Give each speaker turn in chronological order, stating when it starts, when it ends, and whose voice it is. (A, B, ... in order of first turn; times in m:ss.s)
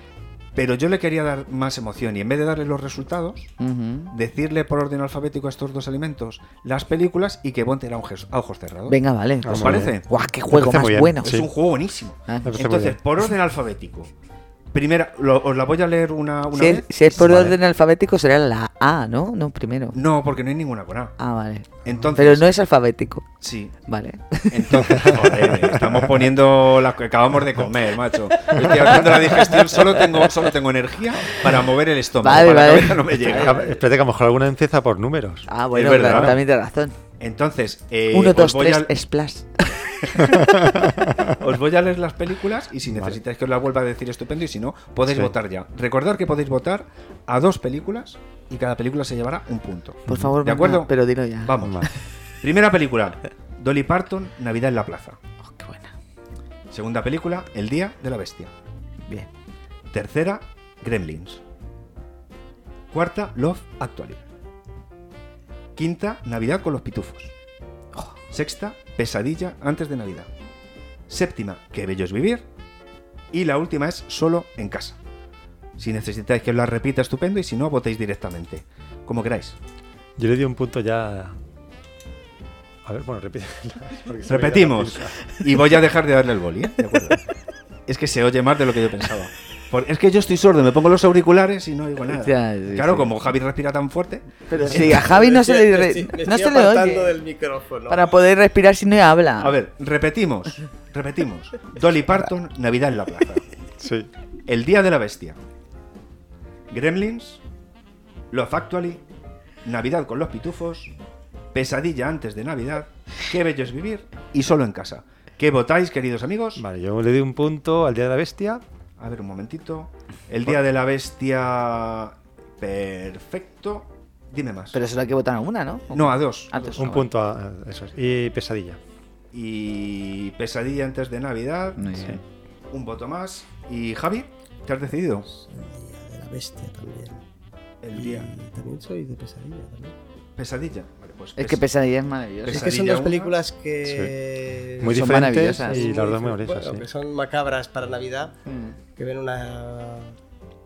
0:00.5-0:03.5 A
0:03.6-0:04.1 B
0:04.1-0:10.0 A
0:08.9-0:11.3 B
0:09.4-0:11.5 C
0:11.2-0:14.1 A
0:12.3-0:12.9 B
0:12.4-0:13.0 C
0:14.7-0:17.6 A
0:16.5-0:20.0 B
0:19.9-0:21.2 A
0:21.2-0:23.3 B
0:21.8-0:22.5 A
0:23.4-0:23.8 A
0:23.9-0:25.2 B
0:24.5-0:33.8 A
0:24.9-0:26.2 C
0:32.2-0:33.5 B
0:33.1-0:36.4 C
0:35.5-0:37.0 B
0:35.7-0:36.4 A
0:37.2-0:38.9 A
0:38.1-0:40.1 B
0:40.3-0:41.3 C
0:41.4-0:50.9 A
0:42.8-0:43.2 C
0:45.1-0:45.4 C
0:50.1-0:50.3 C
0:50.1-0:51.9 B
0:51.4-0:51.8 A
0:51.6-0:51.9 C
0:52.4-0:55.2 A
0:55.4-0:55.9 B
0:56.7-0:58.5 A
0:59.9-1:01.4 A
1:02.9-1:04.2 A
1:05.8-1:07.3 A
1:08.3-1:10.3 A
1:11.1-1:12.4 A
1:13.3-1:15.0 A
1:15.8-1:19.6 A
1:20.2-1:21.4 C
1:22.8-1:25.2 C
1:24.3-1:27.2 A
1:27.9-1:35.0 A
1:32.1-1:33.1 B
1:34.5-1:37.2 B
1:34.7-1:38.2 D
1:37.9-1:39.6 B
1:39.4-1:43.6 A
1:43.8-1:44.1 C
1:44.5-1:45.4 A
1:46.7-1:47.4 A
1:48.3-1:49.0 A
1:49.6-1:50.9 A
1:51.5-1:56.6 A
1:56.6-1:58.6 C
1:59.0-2:04.8 A
2:04.7-2:07.1 B
2:05.9-2:06.8 A
2:06.8-2:08.8 C
2:09.3-2:11.9 A
2:11.8-2:12.2 B
2:12.7-2:15.3 A
2:15.3-2:17.2 D
2:17.8-2:18.3 A
2:17.9-2:20.0 D
2:20.4-2:21.6 A
2:21.4-2:22.7 B
2:22.4-2:23.3 A
2:22.4-2:28.4 D
2:23.8-2:24.2 C
2:24.8-2:26.9 C
2:24.9-2:25.9 B
2:28.5-2:28.8 B
2:29.0-2:30.2 D